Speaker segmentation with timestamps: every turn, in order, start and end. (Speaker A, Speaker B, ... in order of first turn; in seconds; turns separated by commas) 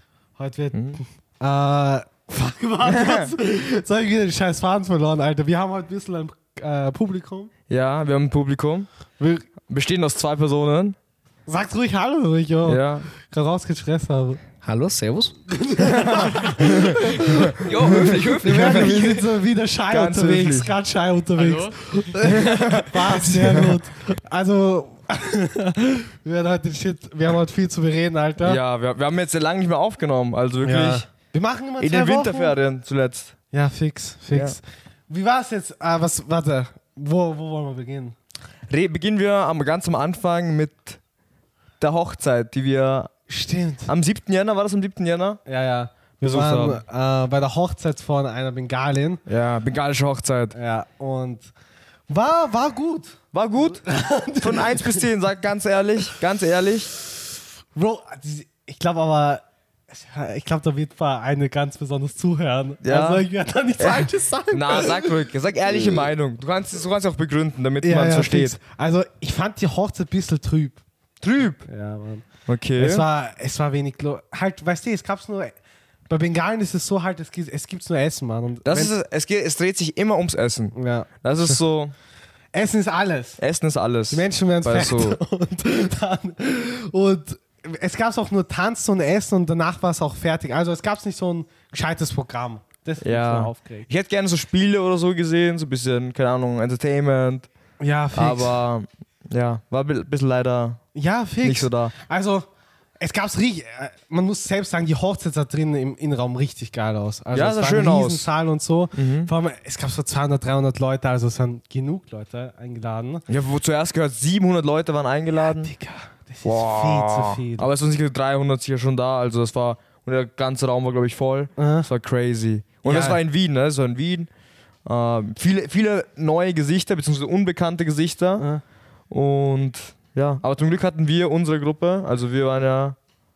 Speaker A: 0.4-7.5, Speaker B: 0.7-1.0, Speaker B: 2.9-3.3, Speaker B: 7.7-8.9, Speaker A: 9.2-9.5, Speaker B: 9.7-11.0, Speaker A: 11.5-14.4, Speaker B: 12.6-13.1, Speaker C: 14.6-15.3, Speaker A: 15.5-28.6, Speaker B: 15.8-19.2, Speaker C: 17.6-19.3, Speaker B: 19.9-20.7, Speaker C: 21.4-21.8, Speaker B: 22.2-23.8, Speaker C: 23.2-23.6, Speaker B: 28.4-31.1, Speaker A: 30.6-32.5, Speaker B: 31.8-33.4, Speaker A: 33.5-38.1, Speaker B: 38.7-41.0, Speaker B: 41.8-43.1, Speaker A: 43.3-43.9, Speaker B: 43.9-45.4, Speaker A: 45.5-49.2, Speaker B: 46.2-46.8, Speaker B: 49.3-50.5, Speaker A: 50.5-51.5, Speaker A: 52.1-55.1, Speaker B: 53.3-53.8, Speaker B: 54.4-56.9, Speaker A: 56.9-57.2, Speaker A: 57.7-66.0, Speaker B: 62.8-63.2, Speaker B: 63.8-68.5, Speaker A: 67.8-70.8, Speaker B: 71.2-71.6, Speaker A: 71.6-75.5, Speaker B: 72.5-73.0, Speaker A: 76.1-78.9, Speaker B: 78.6-81.9, Speaker A: 80.7-81.6, Speaker A: 82.5-83.4, Speaker B: 83.4-85.2, Speaker A: 84.1-93.9, Speaker B: 93.0-97.5, Speaker A: 97.8-98.6, Speaker B: 98.1-100.8, Speaker A: 100.9-102.5, Speaker B: 101.4-101.9, Speaker A: 103.0-113.2, Speaker B: 107.3-108.3, Speaker B: 108.9-109.3, Speaker B: 113.3-115.7, Speaker A: 115.3-117.7, Speaker B: 116.4-124.3, Speaker A: 121.6-121.9, Speaker A: 122.8-123.2, Speaker B: 124.8-128.4, Speaker B: 129.1-133.0